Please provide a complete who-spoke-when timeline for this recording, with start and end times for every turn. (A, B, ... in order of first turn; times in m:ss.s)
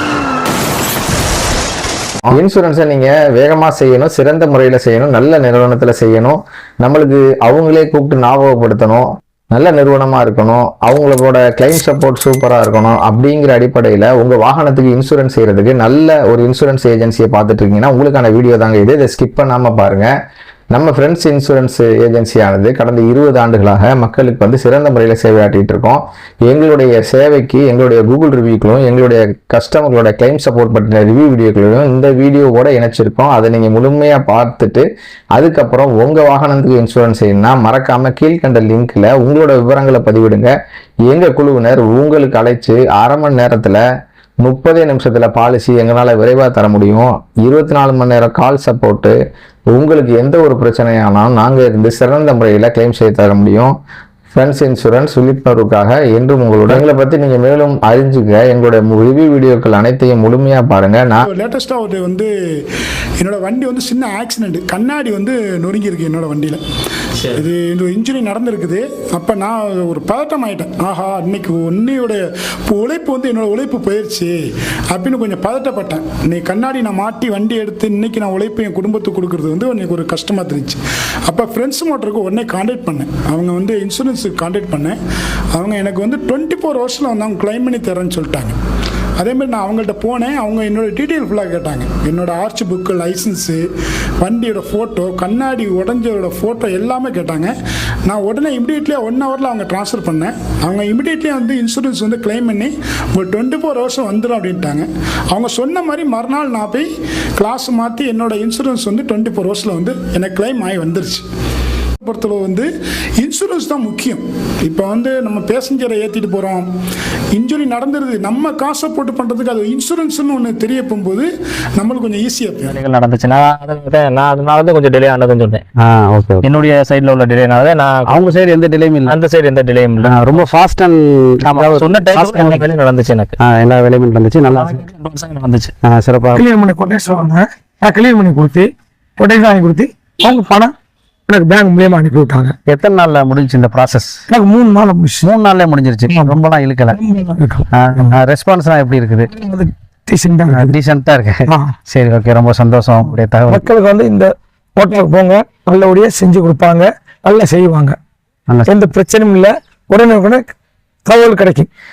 0:02.3-0:20.1 A
0:20.7-0:40.5 A
0:41.1-0:43.8 A
0:44.4-0:49.2 A
0:49.7-0:53.7 A
0:54.3-1:01.3 A
1:01.2-1:02.3 B
1:03.2-1:06.6 B
1:07.3-1:14.4 B
1:14.9-1:25.0 B
1:25.5-1:28.6 B
1:29.2-1:33.6 B
1:34.2-1:51.2 B
1:52.0-1:56.7 B
1:57.3-2:02.8 B
2:02.7-2:05.6 C
2:05.8-2:06.5 D
2:06.4-2:08.2 C
2:08.1-2:09.2 D
2:09.1-2:10.5 C
2:10.0-2:12.7 D
2:11.5-2:13.3 C
2:13.4-2:14.8 D
2:14.5-2:15.7 C
2:15.8-2:16.4 D
2:16.3-2:20.7 E
2:21.3-2:22.5 E
2:22.7-2:24.2 D
2:24.3-2:25.3 E
2:25.2-2:27.0 D
2:26.1-2:26.4 E
2:26.9-2:27.6 E
2:27.7-2:29.3 D
2:29.3-2:30.7 E
2:30.5-2:33.6 D
2:31.5-2:31.7 E
2:33.5-2:38.0 E
2:38.5-2:38.9 D
2:38.7-2:40.5 E
2:41.0-2:41.7 E